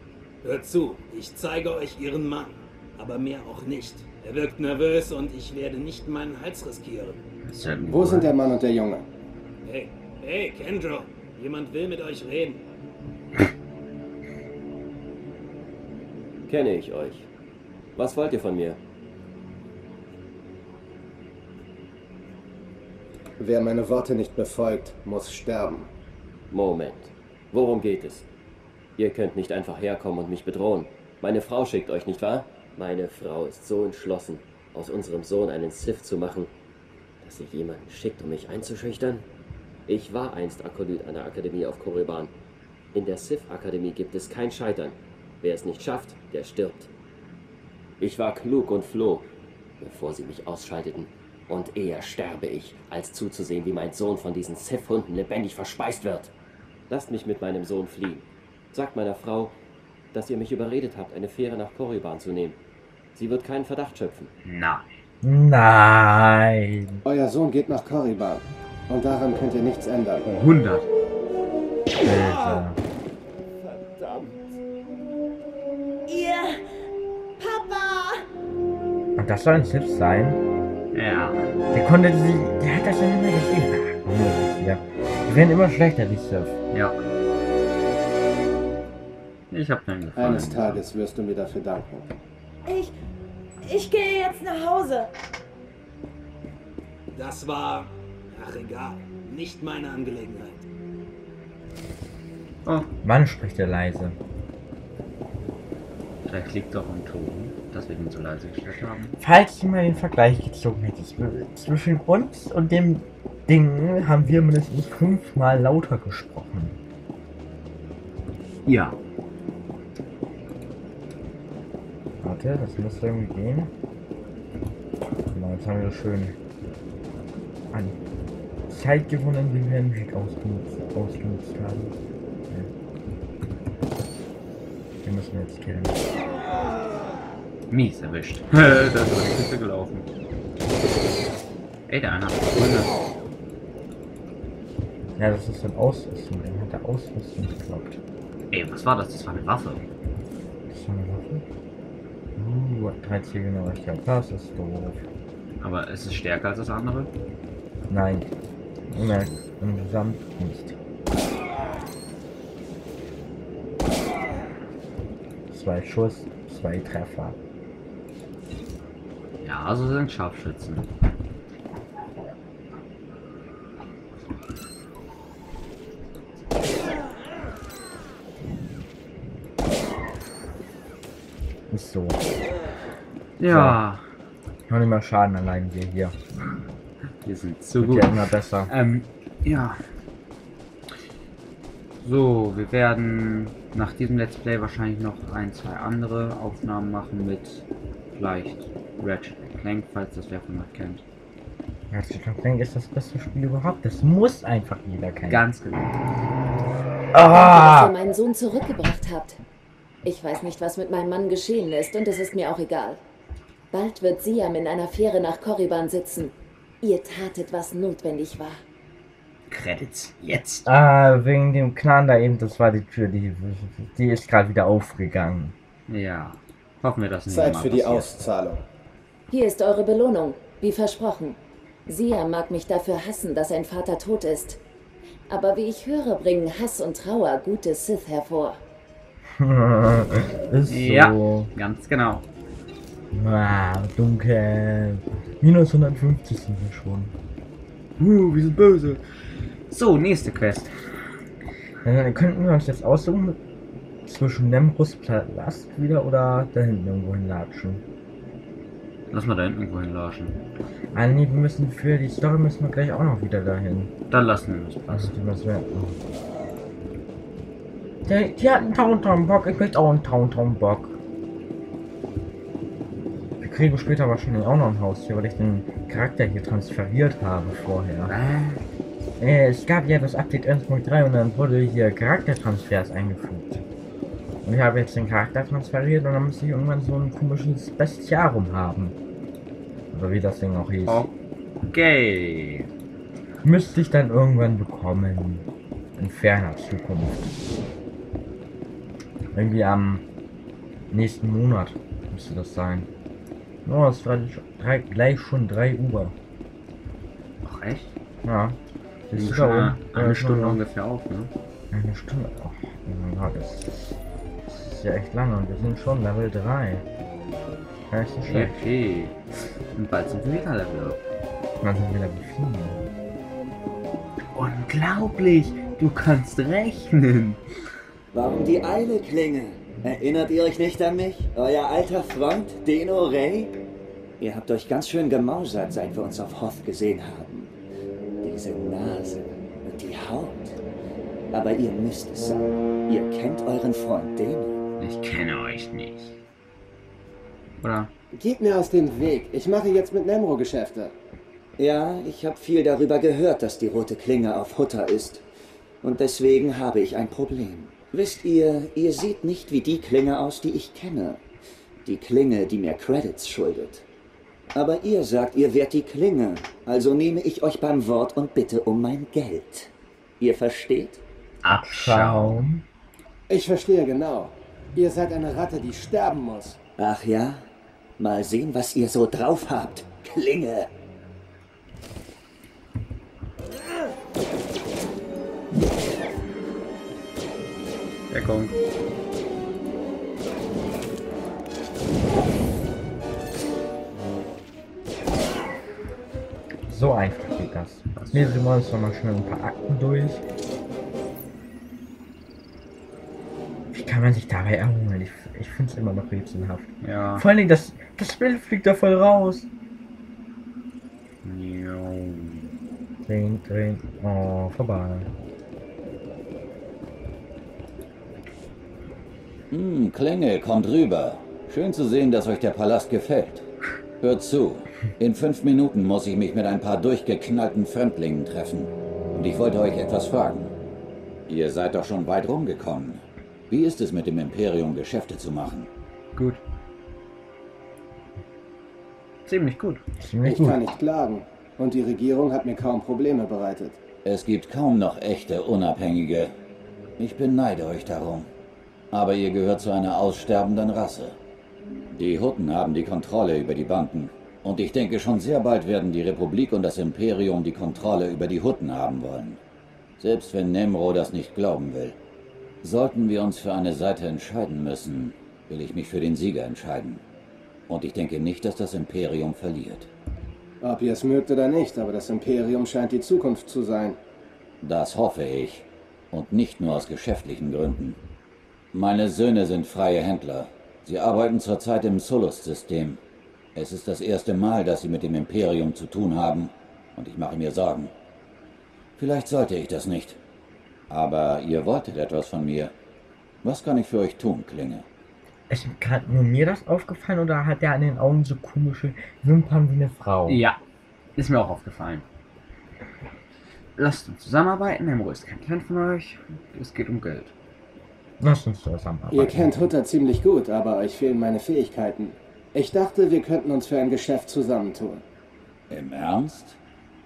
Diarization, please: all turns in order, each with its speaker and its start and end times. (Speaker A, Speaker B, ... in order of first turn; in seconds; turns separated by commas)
Speaker A: 0.4-7.2, Speaker B: 7.4-8.6, Speaker C: 7.9-9.0, Speaker A: 9.7-12.6, Speaker D: 16.4-17.3, Speaker D: 17.9-18.8, Speaker C: 23.4-25.9, Speaker D: 26.5-28.3, Speaker D: 29.0-36.5, Speaker D: 37.2-39.3, Speaker D: 39.9-42.3, Speaker D: 42.9-46.9, Speaker D: 48.0-49.3, Speaker D: 49.8-56.3, Speaker D: 56.9-59.5, Speaker D: 60.1-62.6, Speaker D: 63.1-64.3, Speaker B: 64.4-64.9, Speaker E: 65.2-67.0, Speaker C: 67.0-70.2, Speaker B: 70.2-70.9, Speaker E: 72.0-72.8, Speaker D: 74.0-74.3, Speaker E: 79.2-80.4, Speaker B: 80.9-81.4, Speaker E: 81.7-86.5, Speaker B: 86.7-87.0, Speaker B: 89.5-90.8, Speaker C: 90.2-92.1, Speaker A: 97.1-100.6, Speaker E: 103.0-104.2, Speaker B: 106.2-109.2, Speaker E: 109.2-116.8, Speaker B: 118.7-119.0, Speaker E: 122.2-123.7, Speaker E: 125.3-126.4, Speaker E: 127.7-128.0, Speaker E: 128.7-131.9, Speaker E: 135.0-136.0, Speaker B: 137.7-140.1, Speaker B: 141.9-142.9, Speaker E: 145.2-148.0, Speaker B: 148.5-149.9, Speaker E: 150.7-151.4, Speaker E: 152.4-155.0, Speaker B: 155.6-157.1, Speaker E: 157.9-158.3, Speaker E: 158.9-160.8, Speaker B: 159.0-159.3, Speaker E: 165.5-167.4, Speaker B: 169.4-170.9, Speaker E: 181.7-182.2, Speaker B: 183.4-184.0, Speaker E: 183.5-183.8, Speaker E: 184.7-186.2, Speaker B: 187.2-189.8, Speaker E: 187.8-188.7, Speaker B: 192.0-201.0, Speaker E: 201.9-205.4, Speaker B: 205.3-206.0, Speaker E: 207.1-207.9, Speaker F: 207.3-209.4, Speaker F: 210.0-213.0, Speaker F: 213.7-218.6, Speaker B: 219.5-220.7, Speaker E: 220.7-225.5, Speaker B: 225.9-228.1, Speaker C: 227.3-228.6, Speaker F: 229.3-234.6, Speaker F: 235.3-238.6, Speaker E: 239.4-241.5, Speaker B: 240.7-242.3, Speaker E: 243.1-247.1, Speaker B: 248.0-249.0, Speaker B: 249.7-250.8, Speaker E: 251.8-253.4, Speaker E: 254.1-257.8, Speaker B: 259.1-260.4, Speaker E: 260.9-263.9, Speaker B: 264.1-265.1, Speaker E: 264.9-266.0, Speaker E: 268.1-271.0, Speaker E: 273.4-278.1, Speaker B: 278.1-278.6, Speaker E: 279.2-283.6, Speaker E: 284.4-289.0, Speaker E: 289.9-291.1, Speaker B: 290.9-291.1, Speaker B: 291.7-292.7, Speaker E: 293.4-297.3, Speaker E: 299.3-300.1, Speaker E: 300.9-302.9, Speaker E: 303.7-306.2, Speaker B: 307.4-307.9, Speaker E: 308.2-308.6, Speaker E: 309.1-310.6, Speaker B: 309.1-311.3, Speaker E: 311.7-314.0, Speaker E: 314.5-316.9, Speaker E: 317.9-318.6, Speaker B: 318.2-319.2, Speaker B: 319.7-321.0, Speaker E: 321.6-322.9, Speaker B: 324.4-327.4, Speaker G: 328.1-333.5, Speaker G: 334.2-337.5, Speaker G: 338.2-340.6, Speaker G: 341.3-344.6, Speaker B: 344.8-346.2, Speaker B: 347.6-347.9, Speaker C: 348.1-350.9, Speaker G: 351.6-355.2, Speaker G: 355.8-361.2, Speaker G: 361.9-363.9, Speaker G: 364.5-371.0, Speaker B: 371.4-372.4, Speaker E: 371.5-372.6, Speaker C: 373.3-376.6, Speaker G: 376.8-377.5, Speaker G: 378.0-380.7, Speaker B: 388.1-388.6, Speaker E: 396.7-400.2, Speaker B: 397.9-398.4, Speaker E: 403.7-409.5, Speaker B: 406.8-407.2, Speaker B: 411.2-412.5, Speaker E: 413.1-415.1, Speaker H: 419.5-423.5, Speaker H: 424.0-430.5, Speaker H: 431.3-435.7, Speaker B: 436.1-436.4, Speaker B: 439.2-439.8, Speaker E: 440.0-440.6, Speaker C: 440.2-443.8, Speaker H: 444.0-446.3, Speaker H: 447.0-448.3, Speaker H: 448.9-451.2, Speaker H: 451.9-459.4, Speaker H: 460.0-462.0, Speaker H: 462.6-467.0, Speaker H: 467.7-469.9, Speaker C: 470.6-474.0, Speaker H: 474.6-478.0, Speaker H: 478.7-483.0, Speaker H: 483.6-487.9, Speaker H: 489.0-490.2, Speaker H: 490.9-492.7, Speaker H: 493.4-494.9, Speaker E: 495.5-500.5, Speaker B: 500.3-500.6, Speaker B: 501.2-502.1, Speaker B: 503.8-507.3, Speaker E: 508.2-509.7, Speaker C: 509.1-515.0, Speaker H: 515.7-516.6